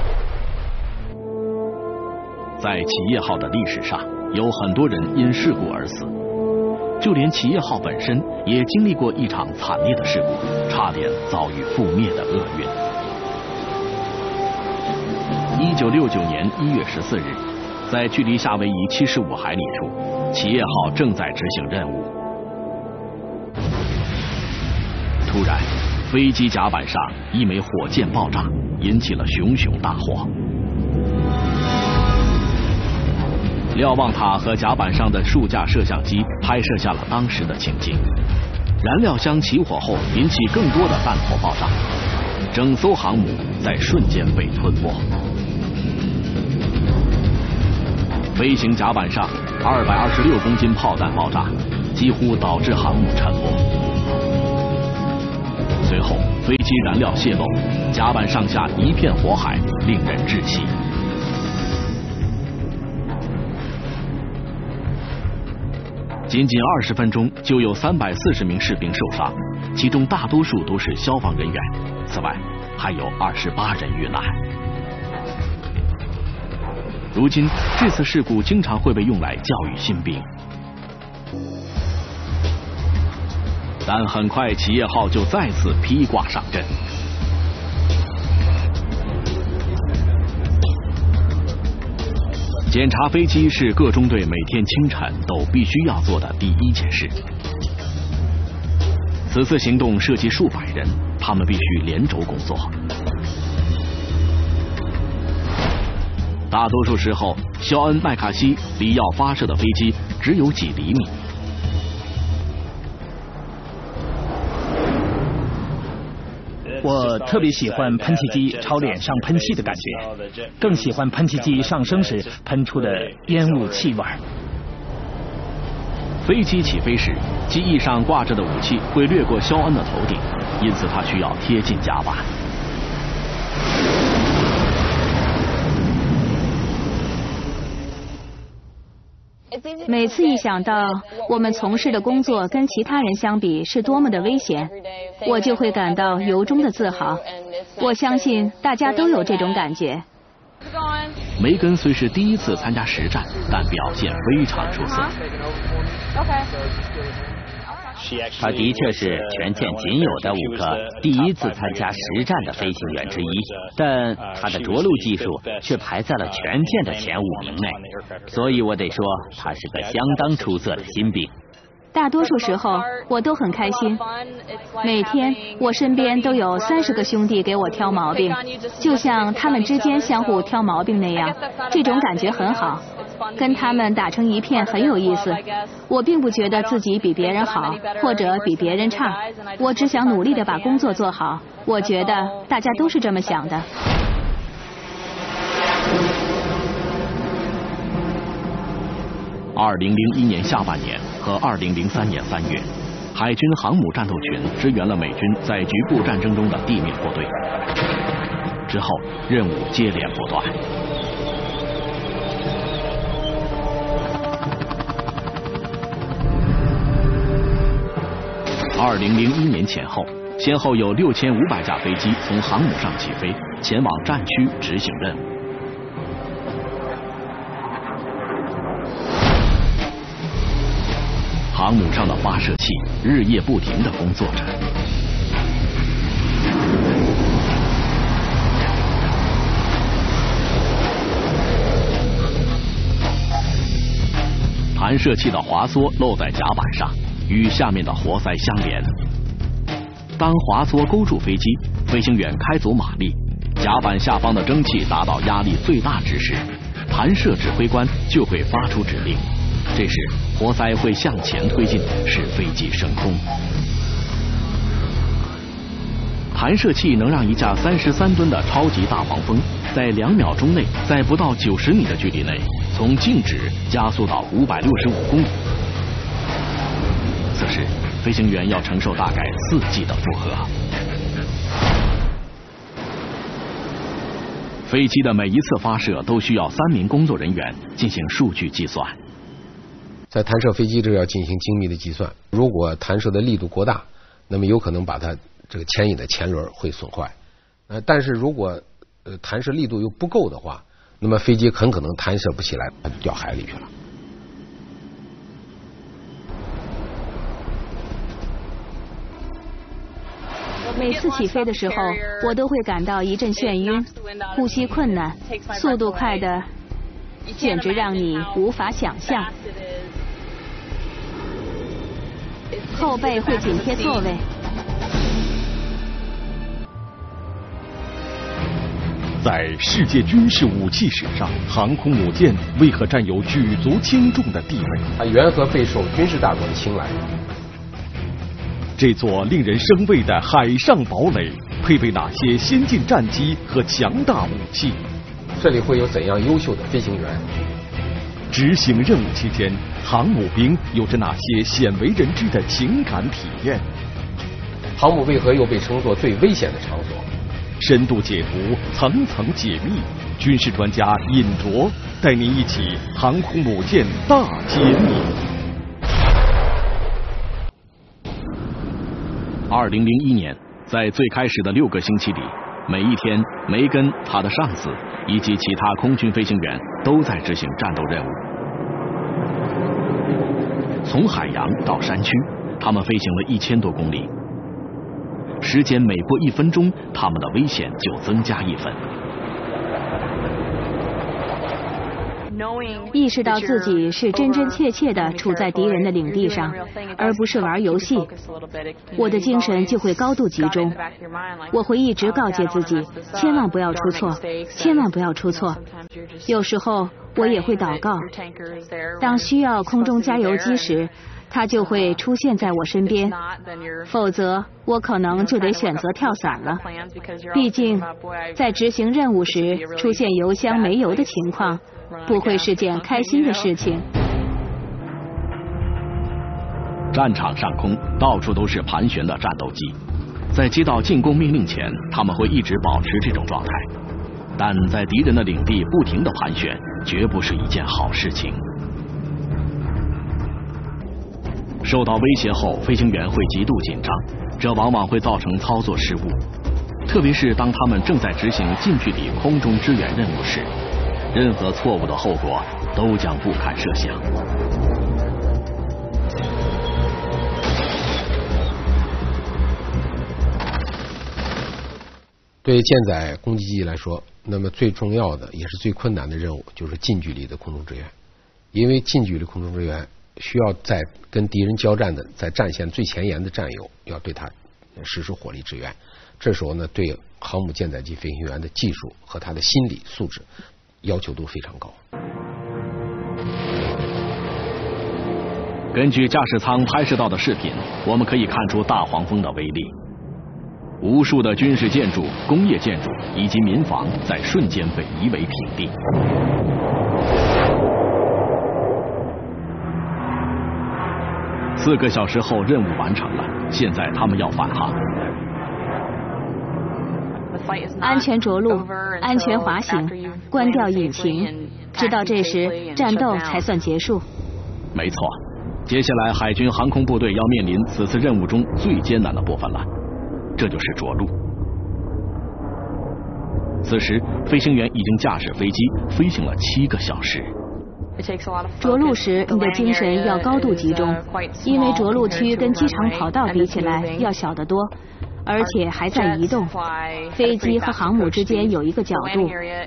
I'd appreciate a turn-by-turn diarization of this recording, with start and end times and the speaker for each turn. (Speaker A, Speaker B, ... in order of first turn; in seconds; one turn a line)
Speaker A: 2.6-6.1
Speaker A: 7.0-12.8
Speaker A: 15.6-22.1
Speaker A: 25.3-30.3
Speaker A: 33.7-38.0
Speaker A: 38.8-41.8
Speaker A: 42.5-45.0
Speaker A: 48.3-53.6
Speaker A: 55.8-60.7
Speaker A: 66.3-74.4
Speaker A: 77.1-80.3
Speaker A: 83.8-86.7
Speaker A: 92.7-97.2
Speaker A: 99.3-102.7
Speaker A: 106.5-111.2
Speaker B: 116.8-124.2
Speaker A: 126.2-132.3
Speaker C: 139.9-144.7
Speaker C: 145.2-147.2
Speaker C: 147.8-150.1
Speaker A: 151.4-155.2
Speaker D: 158.4-171.3
Speaker C: 171.9-174.0
Speaker C: 174.8-182.8
Speaker C: 183.4-193.7
Speaker A: 199.6-207.3
Speaker A: 208.7-210.6
Speaker A: 218.8-225.2
Speaker A: 231.5-234.6
Speaker A: 244.8-248.9
Speaker A: 250.2-263.2
Speaker A: 266.3-275.3
Speaker A: 277.3-280.5
Speaker A: 284.7-289.0
Speaker E: 290.1-297.1
Speaker E: 297.7-303.7
Speaker C: 310.8-316.5
Speaker C: 317.3-319.3
Speaker C: 322.7-324.2
Speaker F: 329.2-334.9
Speaker E: 335.0-337.0
Speaker F: 338.8-344.8
Speaker E: 345.3-347.3
Speaker F: 348.3-353.7
Speaker E: 354.8-357.1
Speaker F: 357.6-365.1
Speaker A: 369.5-378.2
Speaker A: 380.8-384.1
Speaker A: 385.4-388.8
Speaker C: 392.9-398.1
Speaker C: 399.0-400.8
Speaker C: 401.5-405.6
Speaker C: 406.3-408.1
Speaker C: 409.0-413.2
Speaker C: 413.9-416.6
Speaker C: 417.3-423.9
Speaker A: 426.9-429.8
Speaker A: 430.3-433.7
Speaker A: 434.4-438.4
Speaker A: 441.6-446.2
Speaker A: 446.9-450.5
Speaker A: 451.1-454.0
Speaker E: 462.4-467.9
Speaker E: 468.5-480.3
Speaker E: 480.8-481.8
Speaker A: 485.7-489.7
Speaker A: 490.8-495.7
Speaker A: 501.6-504.8
Speaker C: 507.8-514.0
Speaker A: 514.7-519.7
Speaker A: 520.4-521.1
Speaker A: 523.6-527.3
Speaker C: 528.6-534.7
Speaker C: 535.2-536.6
Speaker C: 537.1-539.4